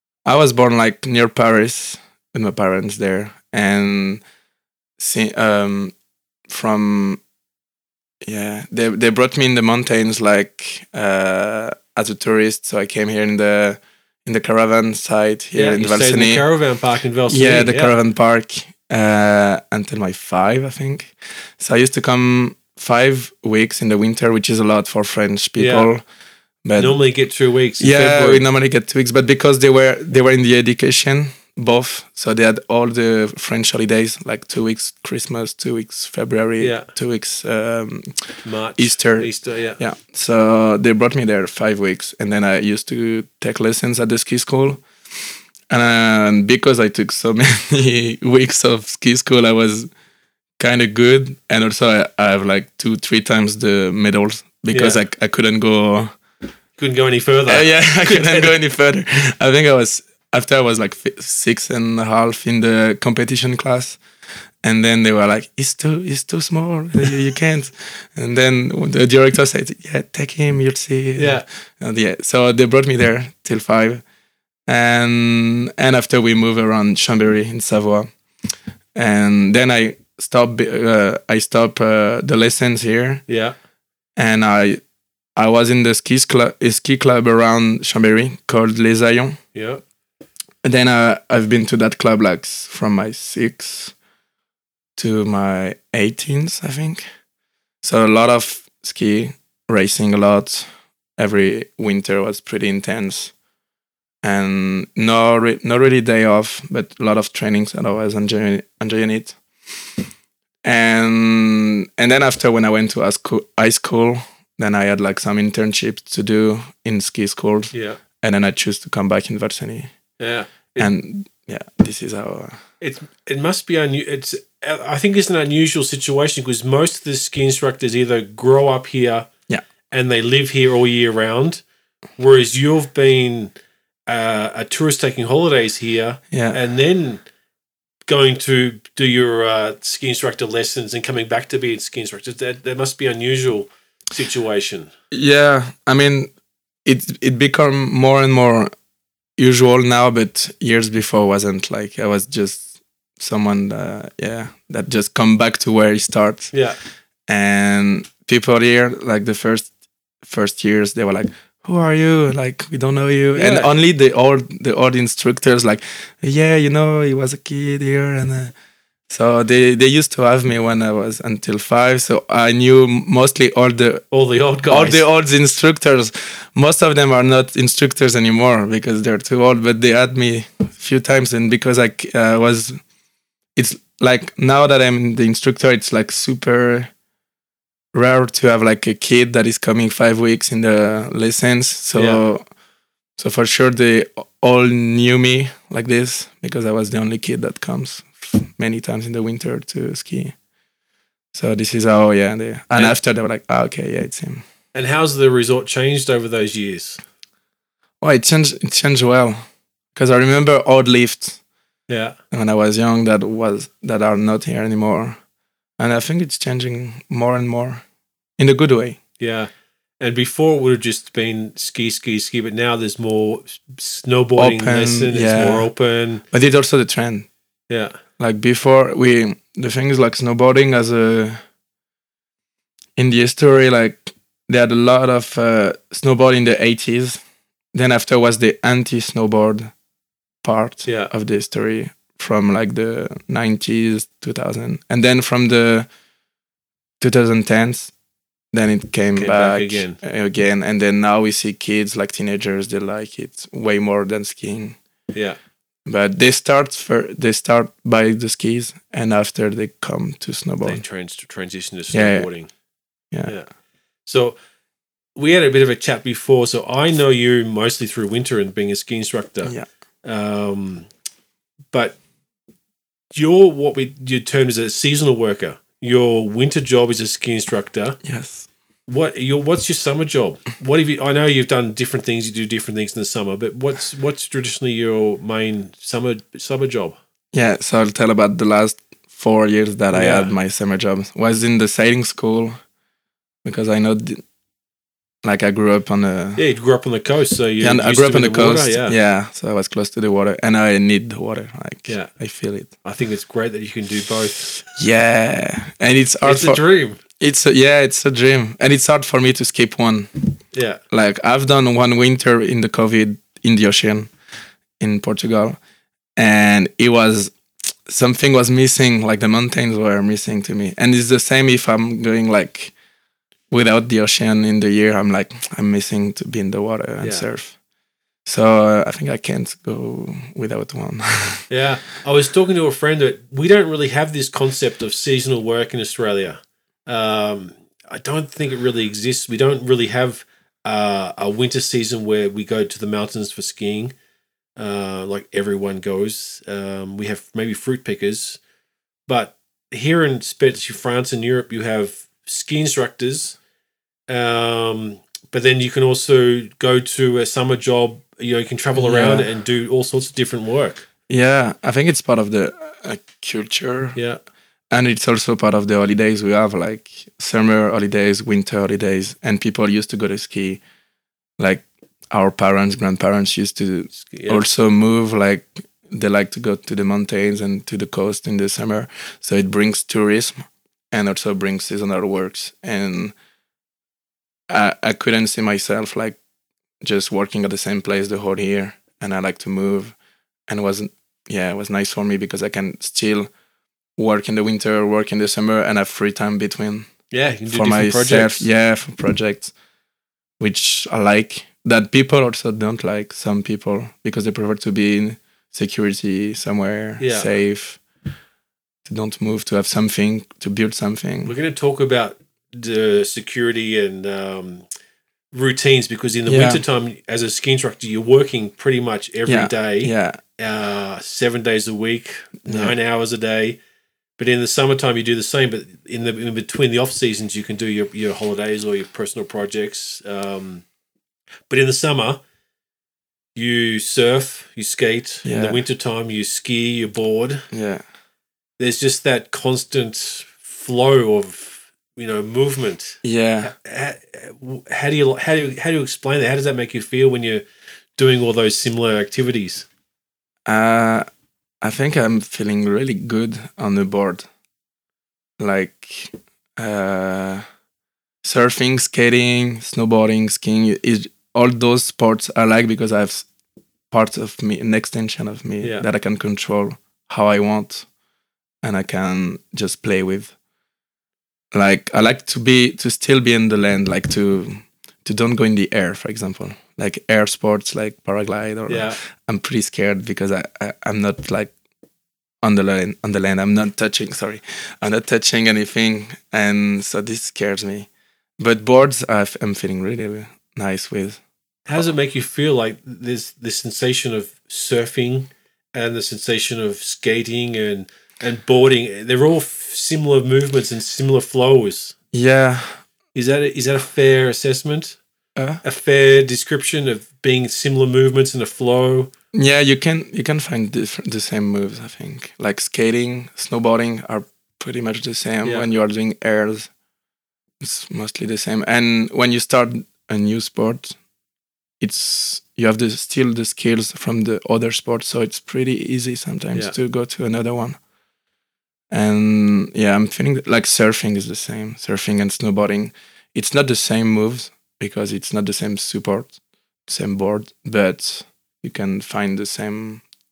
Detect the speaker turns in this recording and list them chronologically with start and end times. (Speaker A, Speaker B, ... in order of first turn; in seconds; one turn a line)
Speaker A: 0.2-4.2
Speaker A: 5.0-5.9
Speaker A: 6.5-7.2
Speaker A: 8.2-16.4
Speaker B: 15.6-17.9
Speaker A: 17.3-26.0
Speaker B: 25.6-25.9
Speaker A: 26.6-27.0
Speaker B: 26.8-28.5
Speaker A: 27.8-44.9
Speaker B: 36.6-36.9
Speaker B: 38.4-39.8
Speaker A: 45.7-49.9
Speaker A: 50.6-56.1
Speaker B: 54.7-55.0
Speaker B: 56.8-58.5
Speaker A: 57.5-64.0
Speaker A: 64.6-74.0
Speaker B: 71.2-71.5
Speaker A: 74.7-78.1
Speaker A: 79.0-83.2
Speaker B: 83.3-83.5
Speaker A: 84.2-84.8
Speaker A: 85.4-89.4
Speaker B: 89.5-89.8
Speaker A: 90.6-94.0
Speaker A: 95.0-97.0
Speaker A: 97.8-100.7
Speaker A: 101.2-103.3
Speaker A: 104.2-109.4
Speaker A: 110.6-119.9
Speaker B: 117.7-118.0
Speaker B: 120.2-120.9
Speaker A: 120.8-122.6
Speaker B: 122.8-129.3
Speaker B: 129.9-131.6
Speaker B: 132.2-133.5
Speaker B: 134.1-137.2
Speaker A: 136.3-136.6
Speaker B: 138.1-144.9
Speaker A: 145.1-146.3
Speaker A: 146.8-148.7
Speaker A: 149.4-156.5
Speaker B: 156.5-156.8
Speaker A: 157.3-159.7
Speaker A: 160.2-168.5
Speaker B: 163.4-163.7
Speaker A: 169.1-174.1
Speaker B: 174.1-175.0
Speaker A: 174.7-182.8
Speaker A: 183.6-186.9
Speaker A: 187.9-192.4
Speaker B: 192.0-192.2
Speaker A: 193.2-200.3
Speaker A: 201.3-204.4
Speaker B: 204.7-207.0
Speaker A: 208.0-209.4
Speaker A: 209.9-211.4
Speaker B: 211.9-212.2
Speaker A: 212.3-215.2
Speaker A: 215.8-217.8
Speaker A: 218.4-219.0
Speaker B: 219.2-226.2
Speaker A: 224.4-225.7
Speaker A: 226.3-227.3
Speaker B: 227.7-228.0
Speaker A: 228.2-231.4
Speaker A: 233.0-237.2
Speaker A: 237.7-239.7
Speaker A: 240.4-245.9
Speaker B: 240.9-241.1
Speaker A: 247.0-247.9
Speaker A: 248.5-254.8
Speaker B: 249.2-250.0
Speaker B: 255.1-255.4
Speaker A: 255.9-260.8
Speaker B: 260.6-262.5
Speaker A: 261.9-262.3
Speaker B: 264.1-264.4
Speaker B: 265.2-270.9
Speaker B: 271.7-272.0
Speaker B: 273.1-278.0
Speaker A: 278.0-278.5
Speaker B: 278.9-287.0
Speaker A: 287.3-292.6
Speaker B: 289.9-290.3
Speaker A: 293.4-294.2
Speaker A: 295.2-296.4
Speaker B: 296.4-299.0
Speaker A: 297.6-302.7
Speaker B: 302.8-304.6
Speaker A: 304.7-306.6
Speaker B: 306.2-307.0
Speaker A: 307.2-310.4
Speaker B: 310.5-310.8
Speaker A: 310.9-314.1
Speaker A: 314.8-315.6
Speaker A: 316.2-317.3
Speaker A: 317.9-322.7
Speaker A: 323.5-327.6
Speaker A: 328.2-331.5
Speaker B: 331.5-343.9
Speaker B: 344.6-348.4
Speaker B: 349.1-353.4
Speaker B: 354.1-360.9
Speaker A: 358.8-359.3
Speaker A: 361.1-364.0
Speaker B: 364.0-364.2
Speaker A: 364.7-370.6
Speaker A: 371.4-380.4
Speaker B: 373.9-374.4
Speaker A: 380.9-383.1
Speaker A: 384.5-386.2
Speaker A: 386.8-390.0
Speaker A: 390.5-393.3
Speaker A: 394.0-396.9
Speaker B: 397.1-398.5
Speaker A: 397.5-399.5
Speaker A: 400.4-407.8
Speaker B: 407.0-407.3
Speaker A: 408.9-411.3
Speaker B: 411.2-414.6
Speaker B: 415.3-423.6
Speaker A: 416.3-416.6
Speaker A: 419.3-420.2
Speaker A: 422.4-422.8
Speaker B: 424.2-430.6
Speaker B: 431.5-432.2
Speaker B: 433.4-437.5
Speaker A: 435.2-435.6
Speaker A: 437.5-437.8
Speaker B: 438.6-447.4
Speaker A: 443.0-443.5
Speaker B: 448.0-449.7
Speaker A: 450.5-451.1
Speaker A: 451.6-454.3
Speaker A: 455.4-457.4
Speaker A: 458.2-463.3
Speaker A: 463.9-467.9
Speaker A: 468.6-470.4
Speaker A: 471.5-481.5
Speaker B: 478.7-479.0
Speaker A: 482.4-491.2
Speaker B: 491.7-501.9
Speaker A: 502.1-502.8
Speaker B: 503.1-505.0
Speaker A: 505.4-505.6
Speaker B: 505.6-509.1
Speaker A: 509.3-516.7
Speaker A: 517.6-521.0
Speaker A: 521.8-527.8
Speaker A: 528.9-536.4
Speaker A: 536.9-540.0